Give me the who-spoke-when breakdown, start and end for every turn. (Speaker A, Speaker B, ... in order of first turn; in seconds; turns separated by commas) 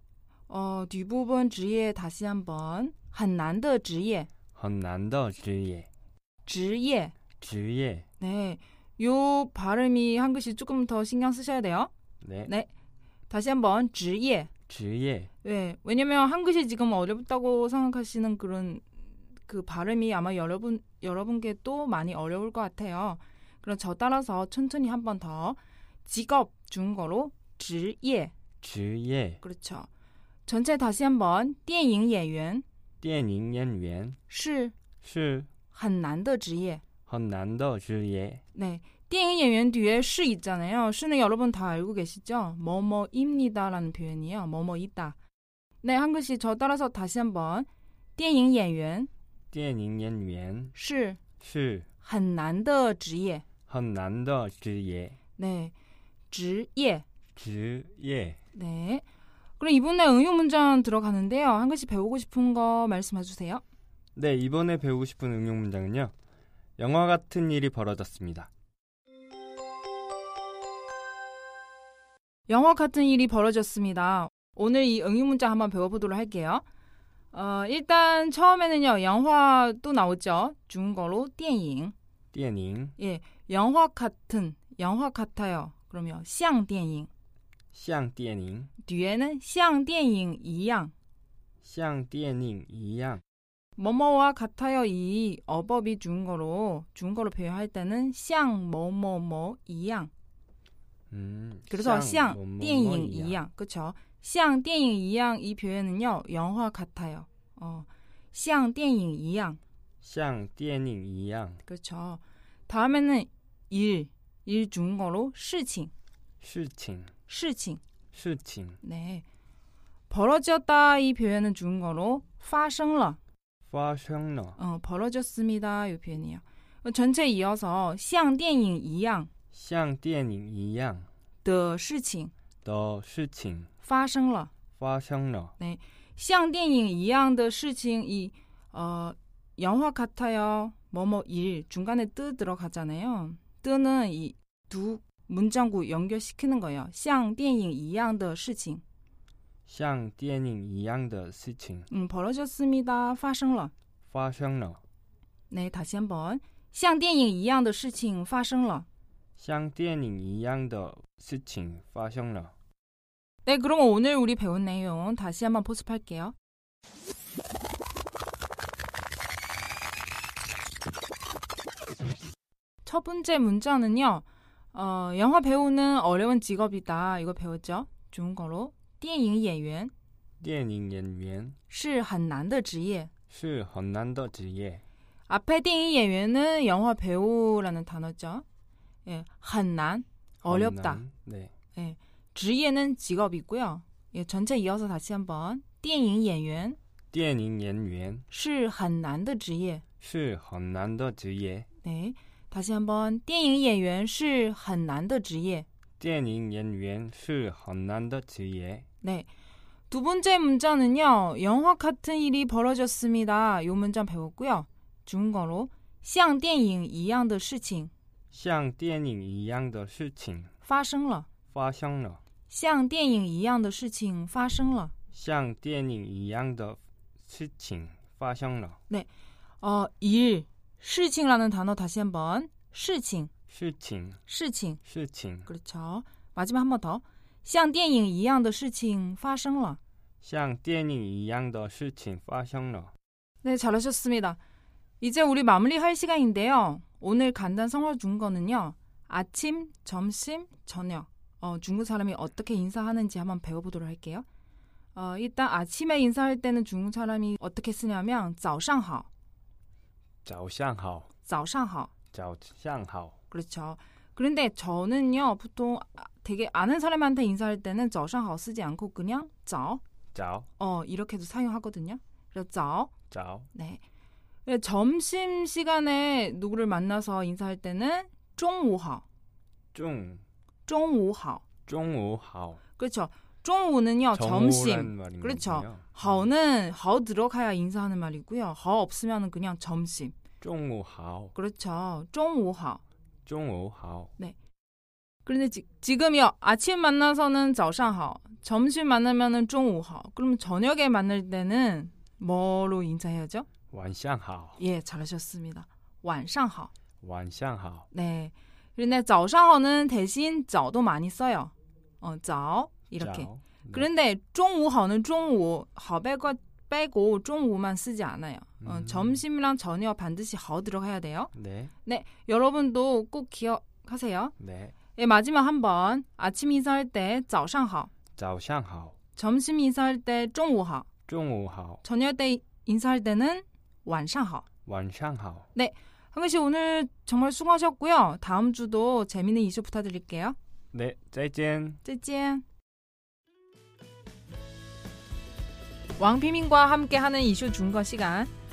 Speaker A: 0.5-4.3, Speaker B: 4.5-5.9, Speaker A: 6.5-7.2, Speaker B: 7.4-8.1, Speaker A: 8.2-11.9, Speaker B: 12.2-12.5, Speaker A: 13.3-14.5, Speaker B: 14.7-15.3, Speaker A: 15.4-18.9, Speaker A: 19.5-28.3, Speaker B: 28.6-29.4, Speaker A: 29.4-29.9, Speaker A: 30.5-32.6, Speaker B: 33.0-34.2, Speaker A: 34.3-34.7, Speaker B: 35.0-35.5, Speaker A: 35.7-36.8, Speaker B: 37.1-38.4, Speaker A: 38.5-45.2, Speaker A: 45.8-49.1, Speaker B: 49.5-50.8, Speaker A: 50.8-51.2, Speaker B: 51.4-51.9, Speaker A: 52.0-53.5, Speaker B: 53.7-55.2, Speaker A: 55.4-55.7, Speaker A: 56.3-57.0, Speaker B: 57.4-58.4, Speaker A: 58.5-59.0, Speaker A: 59.6-63.6, Speaker B: 64.2-66.1, Speaker B: 66.8-68.5, Speaker A: 72.5-76.6, Speaker A: 77.3-81.9, Speaker B: 82.3-83.0, Speaker A: 83.0-87.1, Speaker B: 87.7-88.7, Speaker A: 88.8-90.9, Speaker B: 91.6-93.2, Speaker A: 93.8-100.1, Speaker B: 101.1-103.4, Speaker A: 101.7-109.6, Speaker B: 110.0-111.6, Speaker A: 111.7-115.9, Speaker B: 116.4-117.1, Speaker A: 117.3-117.8, Speaker B: 118.1-118.8, Speaker A: 118.8-119.2, Speaker A: 120.1-123.2, Speaker B: 123.7-124.6, Speaker A: 124.6-129.3, Speaker B: 129.5-131.1, Speaker A: 131.4-132.3, Speaker B: 132.7-133.7, Speaker A: 133.8-134.5, Speaker B: 134.8-135.5, Speaker A: 135.6-148.8, Speaker B: 149.7-151.9, Speaker A: 151.9-153.7, Speaker B: 154.1-154.8, Speaker A: 155.5-158.9, Speaker B: 159.4-162.5, Speaker A: 163.4-166.3, Speaker A: 172.8-179.9, Speaker B: 180.4-181.6, Speaker A: 181.7-183.1, Speaker B: 183.3-184.8, Speaker A: 185.3-188.4, Speaker A: 189.1-191.0, Speaker B: 190.4-191.5, Speaker A: 191.8-196.8, Speaker B: 197.1-198.3, Speaker A: 198.3-199.8, Speaker B: 200.0-201.7, Speaker A: 201.8-205.7, Speaker B: 206.0-208.9, Speaker A: 209.0-209.3, Speaker A: 209.9-217.9, Speaker B: 218.3-220.5, Speaker A: 220.6-221.3, Speaker B: 221.5-222.2, Speaker A: 222.5-224.9, Speaker B: 225.1-228.8, Speaker A: 229.6-233.3, Speaker B: 233.5-234.2, Speaker A: 234.3-234.8, Speaker B: 234.8-235.5, Speaker A: 235.5-239.8, Speaker B: 240.2-242.9, Speaker A: 243.4-244.4, Speaker A: 245.0-254.2, Speaker A: 254.9-259.1, Speaker B: 260.2-261.1, Speaker A: 261.3-261.9, Speaker B: 262.1-263.2, Speaker A: 263.3-269.8, Speaker B: 270.1-270.5, Speaker A: 270.6-272.9, Speaker B: 273.1-273.5, Speaker A: 273.5-273.8, Speaker A: 274.5-279.1, Speaker B: 279.7-280.2, Speaker A: 280.7-281.4, Speaker B: 281.7-282.6, Speaker A: 282.8-290.1, Speaker B: 284.1-286.3, Speaker B: 290.4-291.4, Speaker A: 291.4-292.8, Speaker B: 293.3-294.1, Speaker A: 295.2-303.5, Speaker B: 303.7-304.6, Speaker A: 304.6-306.7, Speaker B: 307.0-307.9, Speaker A: 307.9-321.3, Speaker B: 313.0-313.9, Speaker B: 318.6-319.2, Speaker B: 321.4-321.7, Speaker A: 321.8-324.3, Speaker B: 324.4-324.8, Speaker A: 324.9-327.9, Speaker B: 328.2-329.0, Speaker A: 329.2-330.9, Speaker B: 331.1-331.8, Speaker A: 331.8-334.5, Speaker B: 334.7-335.5, Speaker A: 335.5-340.4, Speaker B: 340.7-341.8, Speaker A: 341.8-342.4, Speaker A: 346.0-348.3